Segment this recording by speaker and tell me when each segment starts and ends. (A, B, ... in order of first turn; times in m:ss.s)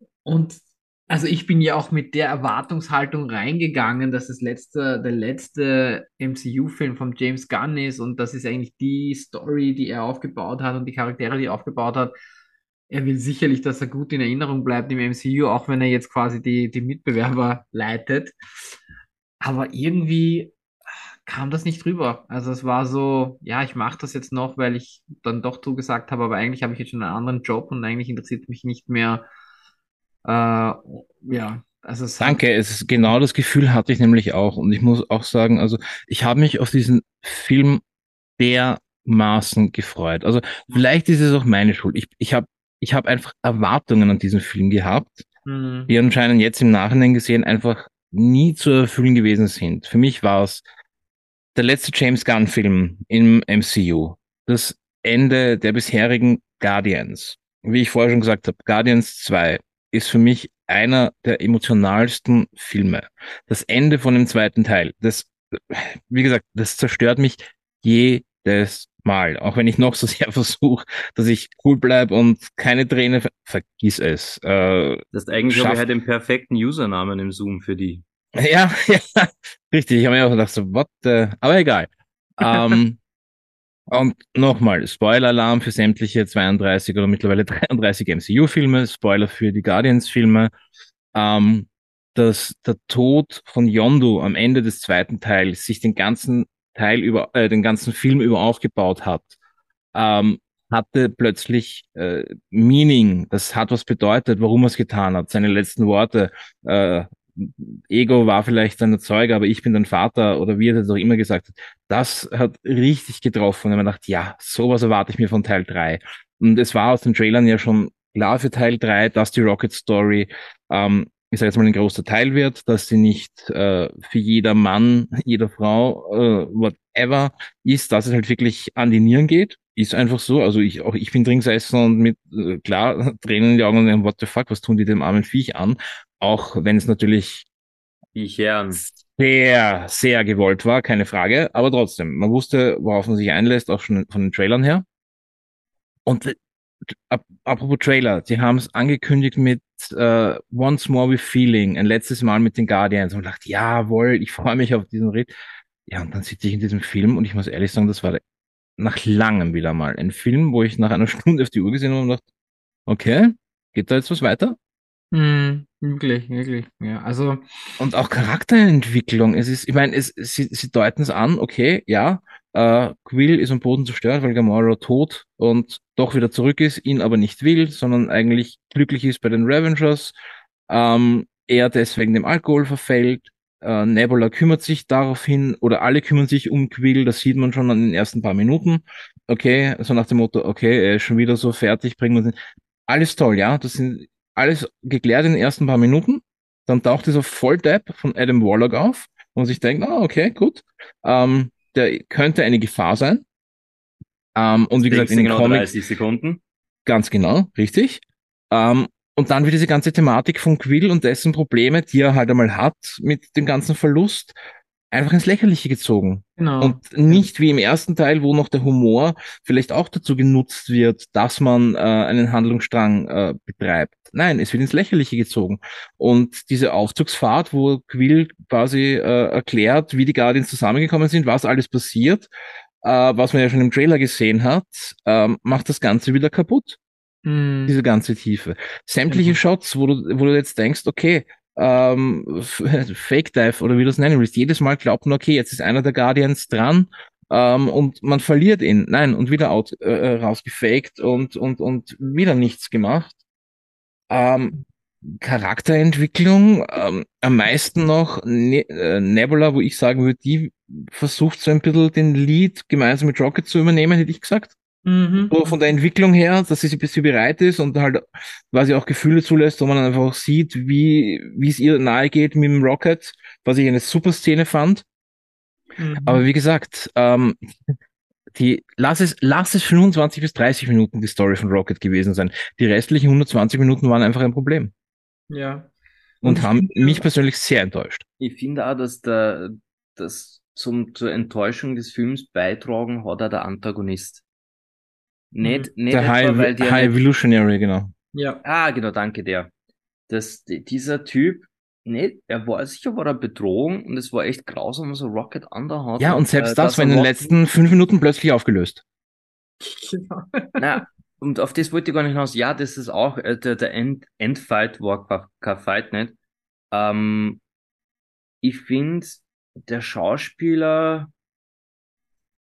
0:00.2-0:12.1 A
0:12.9-0:18.3 A
0:19.4-0:20.5 A
0:21.2-0:29.2 A
0:30.2-0:32.4 A
0:32.2-0:37.8 B
0:38.4-0:45.2 B
0:45.4-0:45.9 A
0:45.9-0:50.6 B
0:51.5-1:15.8 B
1:15.1-1:18.0 C
1:18.4-1:23.0 B
1:23.9-1:30.5 B
1:31.1-1:39.3 B
1:39.9-2:17.4 B
2:18.2-2:18.8 C
2:18.9-2:24.8 B
2:26.0-2:26.4 B
2:26.9-2:35.3 B
2:35.9-2:38.2 B
2:38.8-2:42.2 B
2:42.9-2:44.6 B
2:45.1-2:47.8 A
2:47.8-3:00.1 B
3:00.7-3:12.3 B
3:12.9-3:23.2 B
3:24.3-3:25.7 B
3:24.8-3:26.4 C
3:26.8-3:34.3 B
3:34.9-3:52.3 B
3:36.4-3:37.3 A
3:52.8-3:56.8 B
3:57.2-3:57.7 A
3:57.7-4:13.2 B
3:59.1-3:59.4 A
4:14.1-4:14.6 B
4:15.1-4:24.5 B
4:24.8-4:25.5 A
4:25.3-4:34.8 B
4:35.8-4:36.2 A
4:36.0-4:37.7 B
4:38.3-4:44.7 B
4:45.3-4:45.7 A
4:46.2-4:48.0 B
4:46.2-4:47.0 A
4:48.2-4:54.2 C
4:55.3-4:57.0 C
4:55.4-4:55.7 A
4:55.9-4:57.9 B
4:58.1-4:58.4 A
4:58.4-4:59.5 C
5:00.1-5:07.3 C
5:06.0-5:08.8 B
5:09.6-5:10.8 A
5:10.6-5:16.1 C
5:16.7-5:17.4 C
5:18.4-5:21.1 C